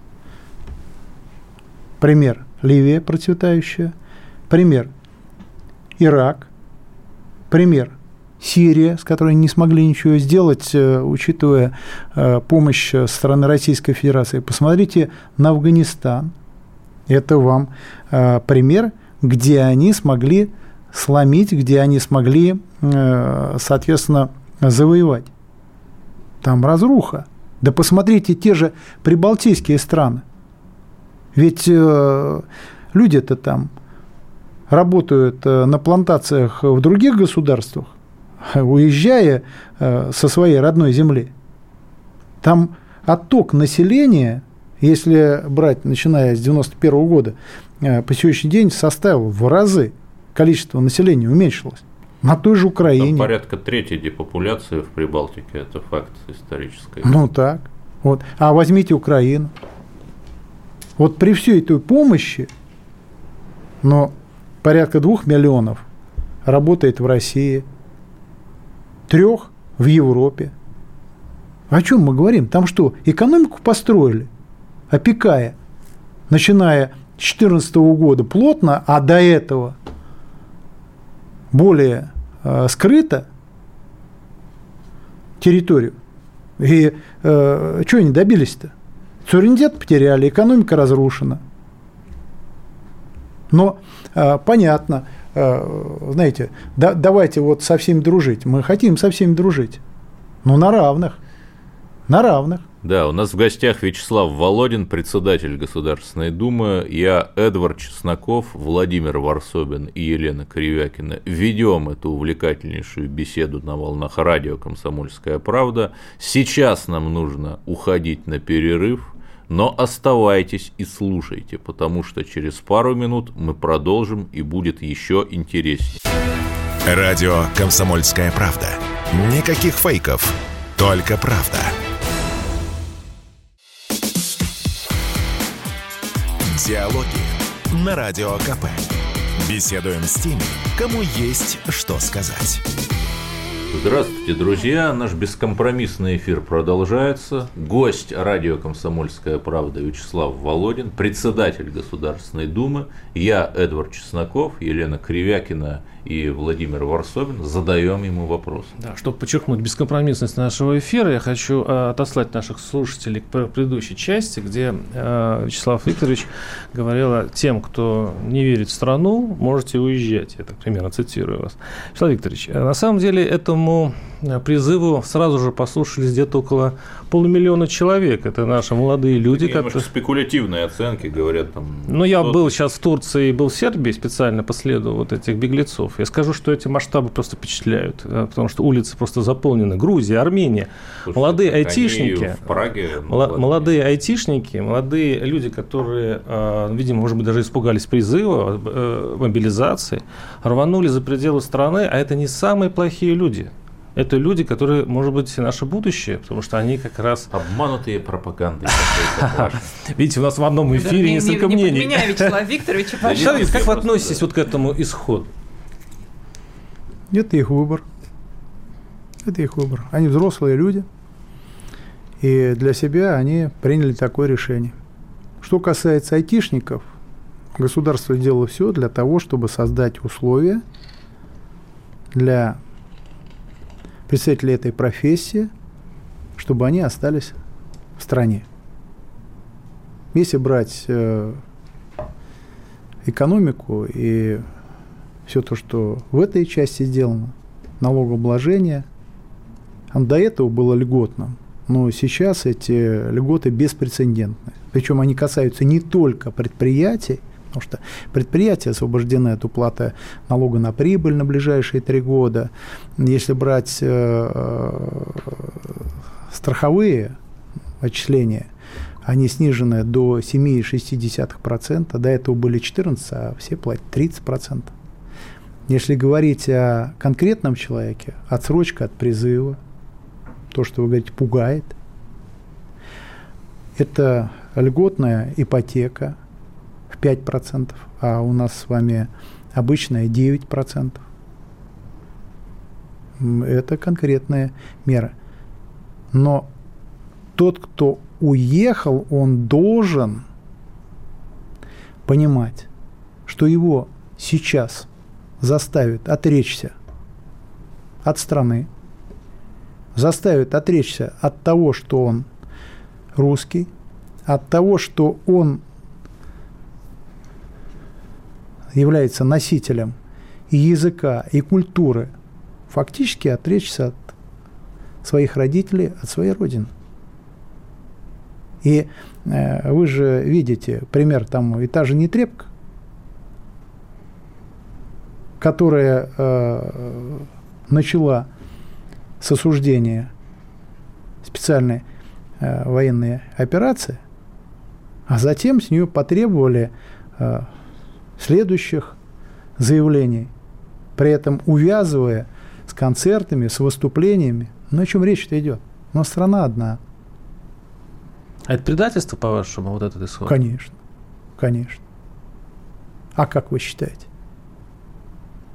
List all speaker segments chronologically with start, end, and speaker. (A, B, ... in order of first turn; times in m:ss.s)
0:02.0-0:03.9 A
0:04.5-0:04.9 A
0:06.0-0:06.5 A
0:07.5-0:16.3 A
0:17.1-0:25.3 A
0:26.4-0:30.2 A
0:31.3-0:33.7 A
0:34.7-0:41.3 A
0:42.4-0:53.3 A
0:52.9-0:57.2 B
0:57.0-0:59.5 A
1:01.0-1:02.5 A
1:03.8-1:05.8 A
1:06.4-1:07.7 A
1:09.1-1:10.5 A
1:11.7-1:14.3 A
1:14.9-1:15.6 A
1:16.3-1:19.8 A
1:21.5-1:23.3 A
1:25.4-1:26.0 A
1:26.6-1:28.7 A
1:29.2-1:31.4 A
1:33.5-1:39.8 A
1:40.4-1:41.2 A
1:42.1-1:42.6 A
1:42.8-2:06.0 B
2:06.9-2:11.7 C
2:16.4-2:18.9 C
2:19.4-2:22.6 C
2:23.7-2:38.7 B
2:38.8-2:59.8 D
2:59.3-3:02.6 B
3:01.9-3:12.4 D
3:11.0-3:13.8 B
3:13.1-3:27.3 D
3:27.3-3:29.7 B
3:28.7-3:32.4 D
3:30.7-3:33.6 E
3:33.0-3:35.3 D
3:33.0-3:34.3 B
3:37.1-3:37.9 A
3:39.2-3:40.9 A
3:42.2-3:44.8 A
3:45.4-3:46.9 A
3:47.6-3:50.6 A
3:52.1-3:52.6 A
3:54.1-3:55.5 A
3:56.4-3:57.4 A
3:58.0-3:58.4 A
4:00.1-4:01.4 A
4:03.0-4:04.4 A
4:05.3-4:08.9 A
4:09.9-4:25.6 A
4:26.3-4:27.2 A
4:27.8-4:28.5 A
4:29.0-4:34.7 A
4:35.7-4:39.6 A
4:40.5-4:41.8 A
4:43.8-4:46.2 A
4:46.9-4:51.0 A
4:53.2-4:55.1 A
4:56.1-4:56.5 A
4:57.4-5:00.3 A
5:02.1-5:02.7 A
5:03.3-5:04.9 A
5:05.4-5:06.7 A
5:08.0-5:08.7 A
5:10.0-5:12.3 A
5:13.2-5:13.7 A
5:14.3-5:15.6 A
5:18.7-5:20.0 A
5:20.5-5:22.1 A
5:22.7-5:24.1 A
5:25.0-5:26.7 A
5:28.6-5:32.5 A
5:35.4-5:38.3 A
5:39.2-5:40.1 A
5:41.2-5:41.8 A
5:42.4-5:44.0 A
5:45.1-5:47.5 A
5:48.2-5:49.0 A
5:49.6-5:50.3 A
5:51.0-5:56.8 A
5:58.5-6:00.4 D
6:00.3-6:00.8 A
6:01.4-6:01.8 A
6:03.2-6:04.1 A